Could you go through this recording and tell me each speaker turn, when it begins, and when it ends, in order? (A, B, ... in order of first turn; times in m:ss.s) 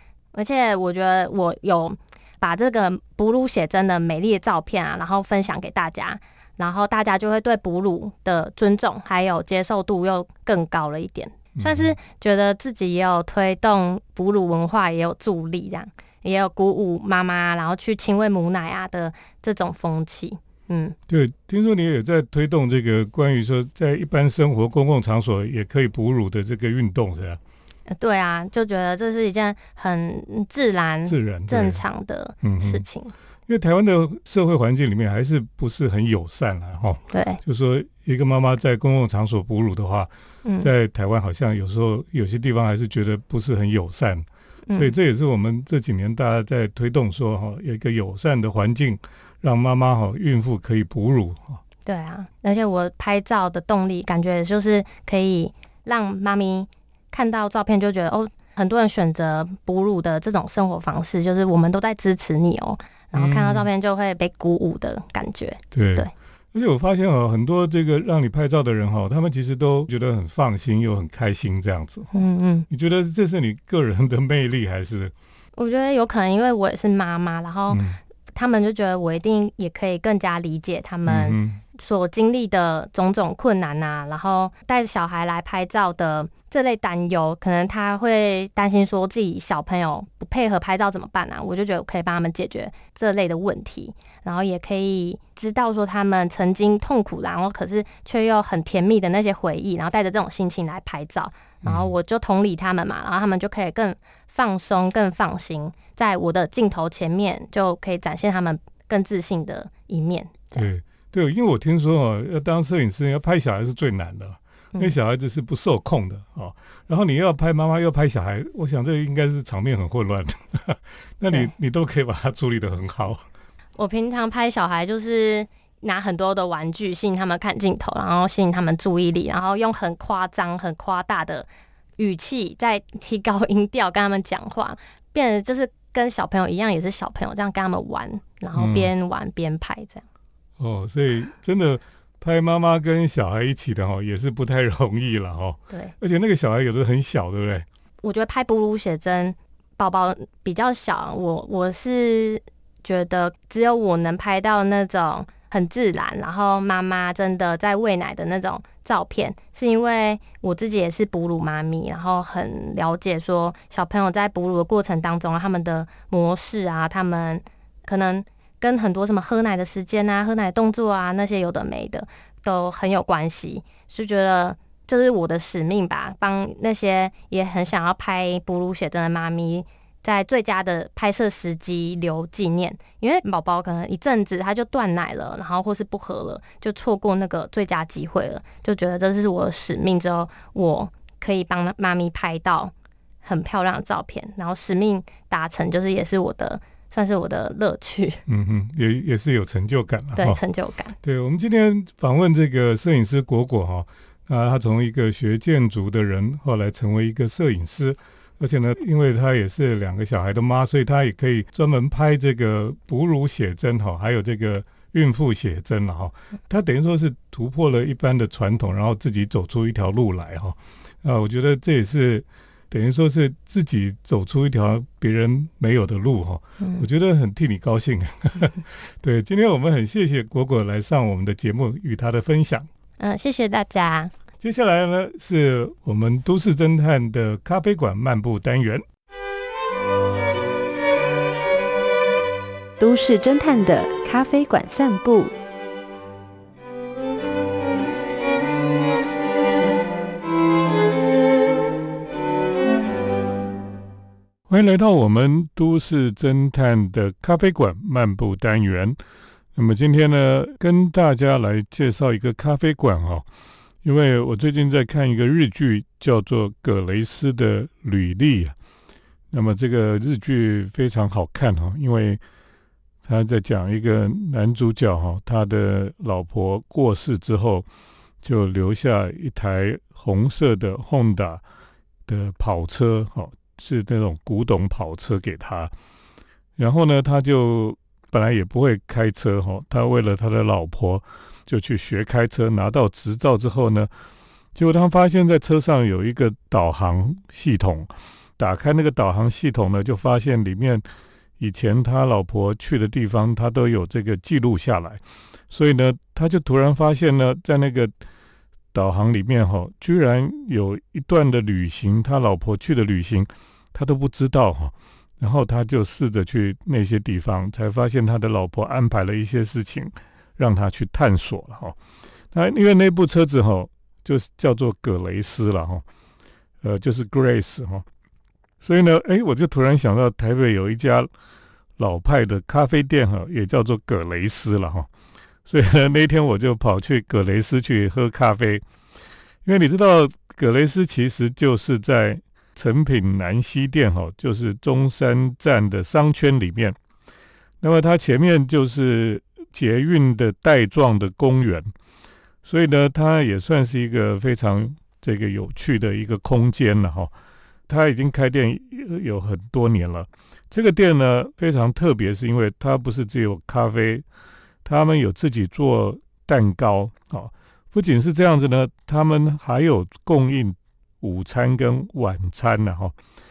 0:00.3-0:21.0 A
0:11.6-0:12.0 B
0:21.1-0:27.4 B
0:27.9-0:33.1 A
0:31.0-0:31.8 B
0:32.4-0:32.8 B
0:33.5-0:51.6 B
0:37.1-0:37.4 A
0:40.4-0:40.7 A
0:44.7-0:44.9 A
0:51.8-1:06.1 A
1:03.1-1:03.7 B
1:05.7-1:12.1 B
1:12.1-1:12.7 A
1:12.7-1:15.1 B
1:15.6-1:50.6 A
1:17.7-1:18.0 B
1:21.0-1:21.6 B
1:41.6-1:41.9 B
1:50.5-2:03.2 B
2:03.8-2:20.0 A
2:18.5-2:18.9 B
2:20.6-2:27.6 B
2:28.0-3:12.7 A
3:13.2-3:18.2 A
3:18.3-3:20.4 B
3:20.2-3:20.9 A
3:21.0-3:52.7 B
3:53.0-3:54.1 A
3:54.4-3:58.8 B
4:02.8-4:05.3 C
4:14.5-4:19.0 B
4:19.5-4:23.2 B
4:23.8-4:28.5 B
4:29.3-4:32.2 B
4:33.0-4:37.6 B
4:38.2-4:41.4 B
4:42.1-4:45.7 B
4:46.6-4:53.9 B
4:54.5-5:00.8 B
5:01.4-5:07.9 B
5:08.7-5:21.8 B
5:22.3-5:25.8 B
5:26.6-5:27.8 B
5:28.6-5:31.1 B
5:31.8-5:34.9 B
5:35.4-5:38.6 B
5:39.4-5:46.8 B
5:47.6-5:51.7 B
5:52.4-5:57.1 B
5:57.7-6:04.0 B
6:04.6-6:12.9 B